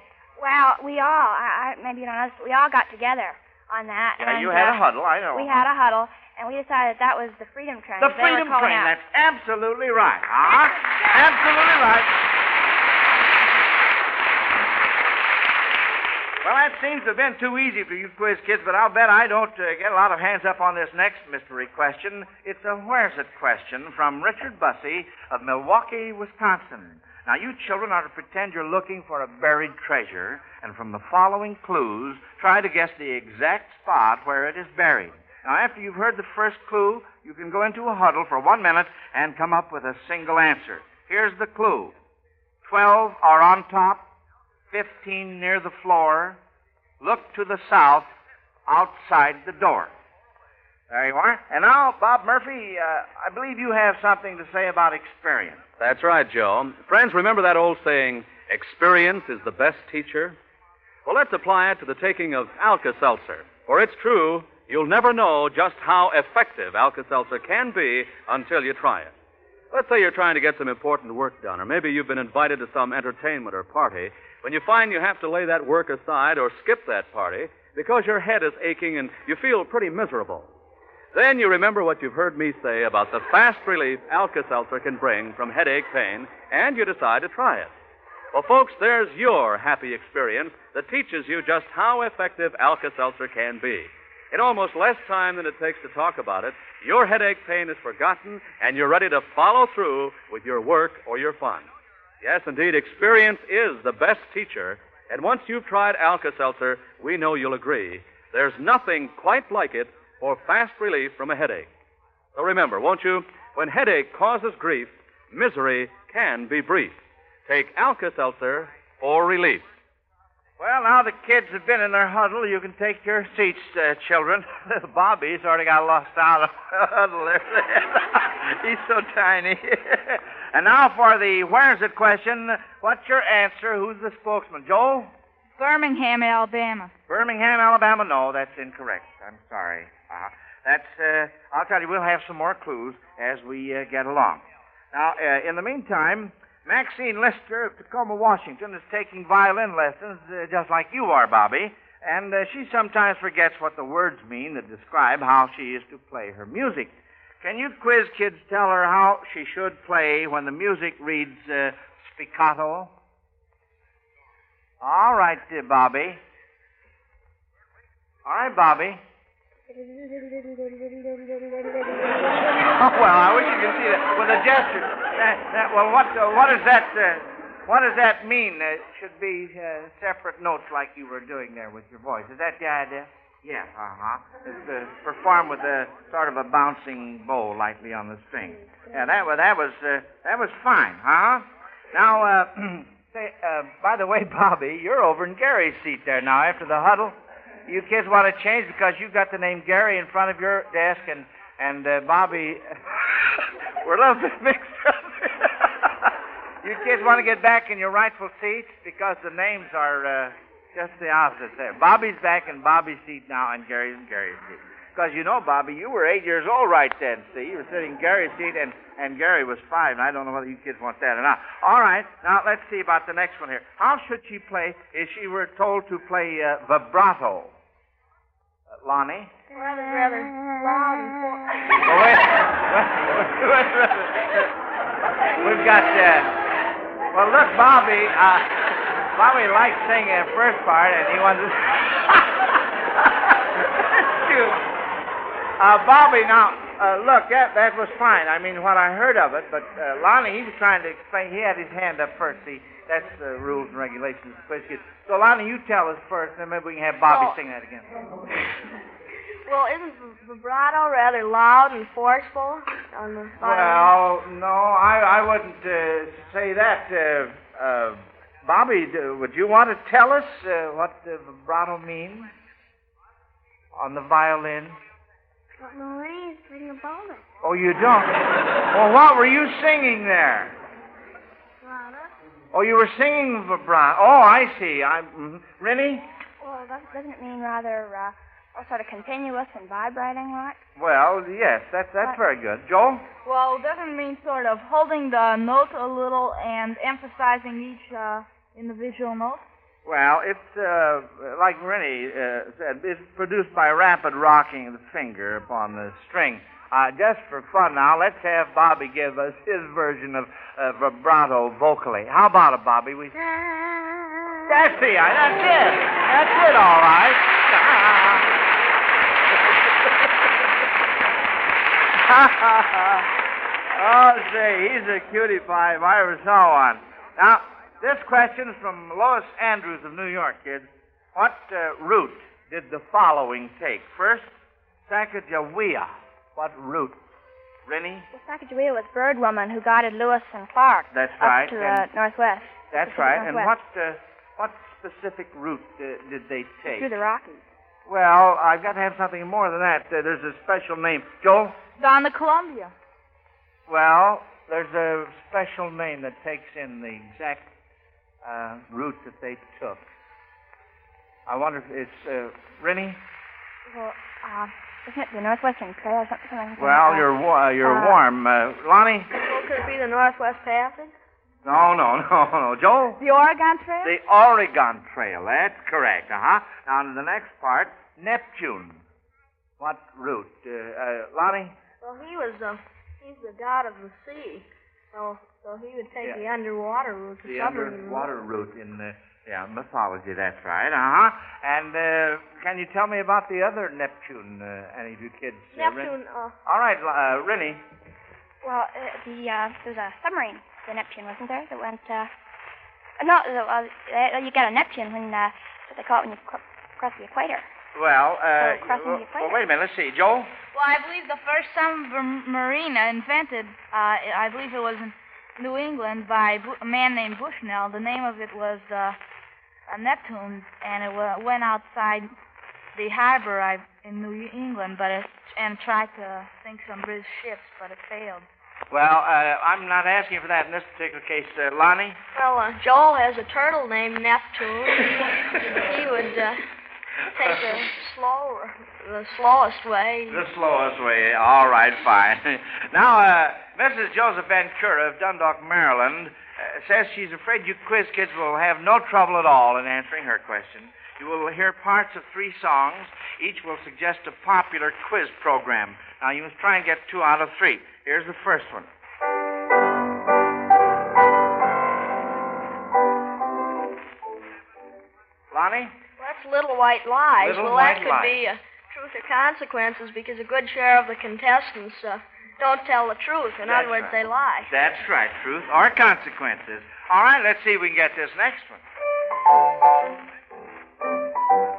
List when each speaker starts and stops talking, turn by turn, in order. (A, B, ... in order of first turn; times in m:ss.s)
0:00.4-0:04.8 A
0:04.2-0:05.6 B
0:05.3-0:08.9 A
0:08.0-0:12.2 B
0:16.4-0:42.0 B
0:42.6-0:44.1 B
0:44.7-0:46.4 B
0:47.0-0:48.1 B
0:48.7-0:49.9 B
0:50.9-0:55.6 B
0:55.8-1:00.4 C
1:01.0-1:09.1 C
1:09.7-1:20.5 C
1:21.1-1:27.7 C
1:28.3-1:41.7 C
1:42.2-1:51.7 C
1:52.4-1:59.6 C
2:00.6-2:15.1 B
2:15.6-2:16.9 D
2:17.1-2:42.9 B
2:44.8-2:46.2 B
2:48.2-2:49.0 B
2:49.7-2:52.7 E
2:52.6-3:47.6 B
3:48.8-3:49.3 B
3:49.5-3:51.4 F
3:51.8-3:54.5 B
3:55.4-3:56.3 B
3:57.1-4:04.6 B
4:05.6-4:18.0 B
4:17.1-4:17.4 F
4:19.5-4:24.0 F
4:23.4-4:32.3 B
4:33.8-4:34.8 B
4:35.6-4:37.3 E
4:37.4-4:40.6 B
4:41.6-4:42.1 E
4:42.5-4:46.0 B
4:46.4-4:50.6 A
4:50.8-4:53.1 B
4:53.2-4:59.4 D
4:59.8-5:13.2 B
5:13.2-5:14.5 E
5:14.5-5:18.3 B
5:19.4-5:19.9 B
5:21.9-5:23.1 B
5:23.8-5:34.3 B
5:34.9-5:37.0 B
5:37.7-5:38.1 B
5:38.1-5:43.5 A
5:40.9-5:41.8 B
5:42.7-5:46.9 B
5:46.6-5:47.4 A
5:47.9-5:51.6 B
5:51.8-5:52.7 D
5:53.7-5:57.5 B
5:58.2-5:59.8 B
6:01.3-6:03.0 B
6:03.7-6:08.0 A
6:06.6-6:09.1 B
6:09.1-6:10.9 F
6:11.4-6:13.0 B
6:13.0-6:13.9 D
6:13.8-6:18.8 B
6:19.6-6:21.6 B
6:21.8-6:28.1 F
6:27.2-6:37.6 B
6:35.6-6:36.4 F
6:38.4-6:42.1 A
6:43.0-6:47.4 A
6:47.7-6:50.3 B
6:48.4-6:49.4 A
6:50.5-6:59.0 D
6:59.7-7:02.1 D
7:02.8-7:08.3 D
7:08.7-7:12.0 B
7:12.1-7:16.4 F
7:17.1-7:20.2 F
7:20.1-7:38.7 B
7:45.3-7:45.8 B
7:46.0-7:54.5 F
7:47.2-7:48.2 B
7:53.5-7:58.6 B